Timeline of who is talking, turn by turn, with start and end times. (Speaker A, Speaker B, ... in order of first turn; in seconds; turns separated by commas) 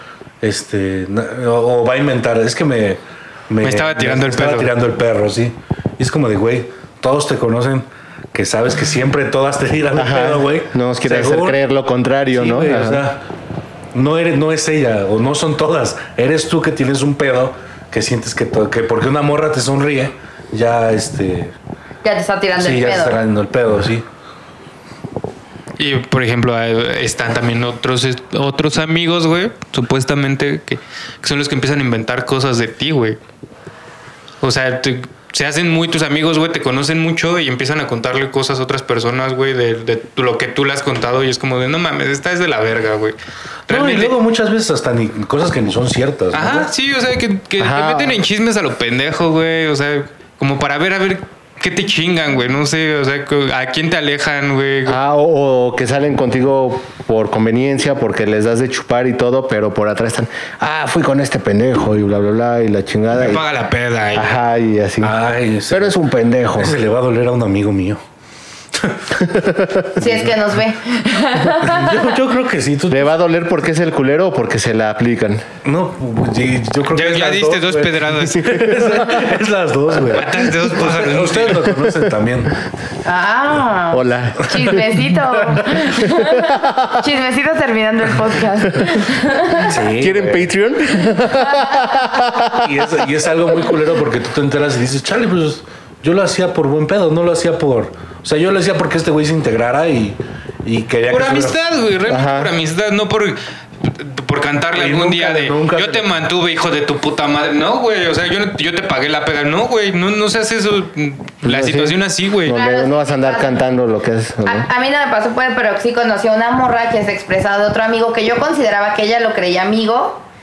Speaker A: 0.4-11.6, Speaker B: 3.6-4.7, Speaker C: 9.9-13.0, Speaker A: 12.3-13.2, Speaker A: 13.9-21.5, Speaker D: 22.0-23.2, Speaker A: 22.6-24.0, Speaker B: 25.8-33.2, Speaker B: 34.4-43.1, Speaker B: 43.7-44.1, Speaker A: 43.7-46.7, Speaker B: 46.3-55.0, Speaker C: 47.6-48.2, Speaker C: 54.8-63.4, Speaker B: 63.1-64.4, Speaker C: 64.1-65.1, Speaker A: 65.0-66.0, Speaker C: 65.7-66.7, Speaker A: 66.5-68.0, Speaker A: 68.7-69.1, Speaker C: 69.2-70.2, Speaker D: 70.0-72.0, Speaker A: 71.6-73.1, Speaker C: 72.9-75.4, Speaker A: 75.6-82.5, Speaker B: 76.9-78.8, Speaker C: 78.5-79.2, Speaker B: 80.1-81.7, Speaker D: 83.0-89.7, Speaker C: 83.9-85.0, Speaker C: 85.9-87.0, Speaker A: 89.6-90.5, Speaker C: 89.8-92.7, Speaker D: 91.3-92.3, Speaker A: 92.5-101.6, Speaker B: 101.1-112.5, Speaker C: 102.1-102.5, Speaker A: 104.7-106.1, Speaker C: 111.4-114.7, Speaker D: 112.5-113.5, Speaker D: 114.4-120.2